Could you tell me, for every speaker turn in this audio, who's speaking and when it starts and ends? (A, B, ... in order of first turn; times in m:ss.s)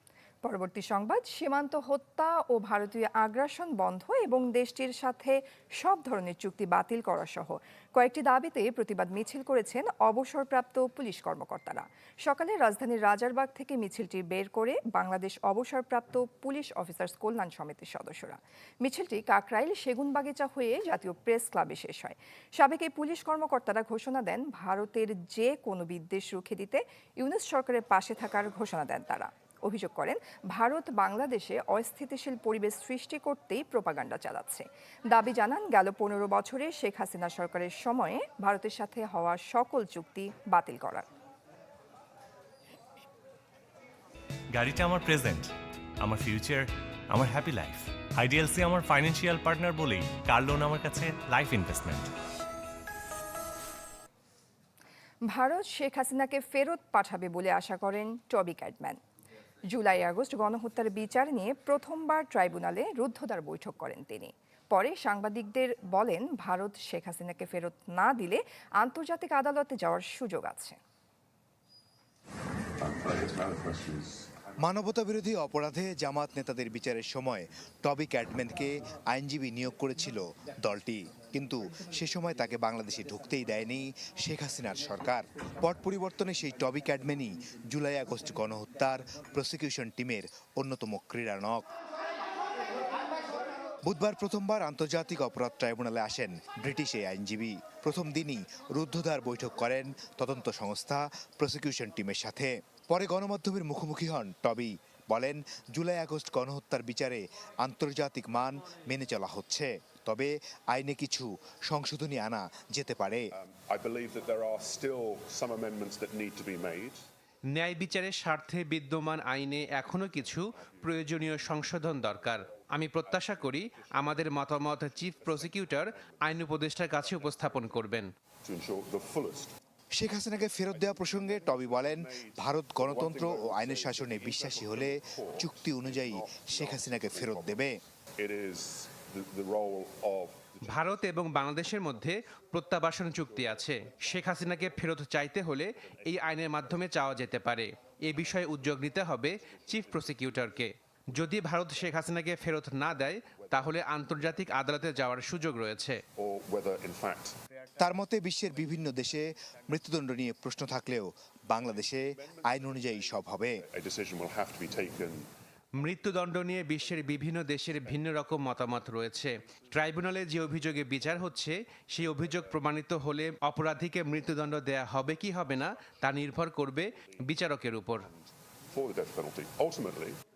0:00.4-0:41.1 A
0:44.5-0:52.1 B
0:55.3-0:59.0 A
0:59.7-1:10.8 A
1:12.9-1:14.2 C
1:14.6-1:31.6 D
1:33.8-1:53.3 D
1:53.3-1:57.1 C
1:57.5-2:08.1 E
2:00.7-2:01.2 C
2:03.0-2:04.2 C
2:05.1-2:07.7 C
2:08.4-2:09.5 C
2:09.9-2:17.8 D
2:10.7-2:21.0 C
2:20.6-2:36.0 E
2:23.3-2:23.6 C
2:25.9-2:26.9 C
2:33.3-2:33.7 C
2:36.2-2:37.4 C
2:37.8-2:43.6 D
2:41.7-2:45.3 C
2:45.8-2:58.1 E
2:58.0-3:00.2 C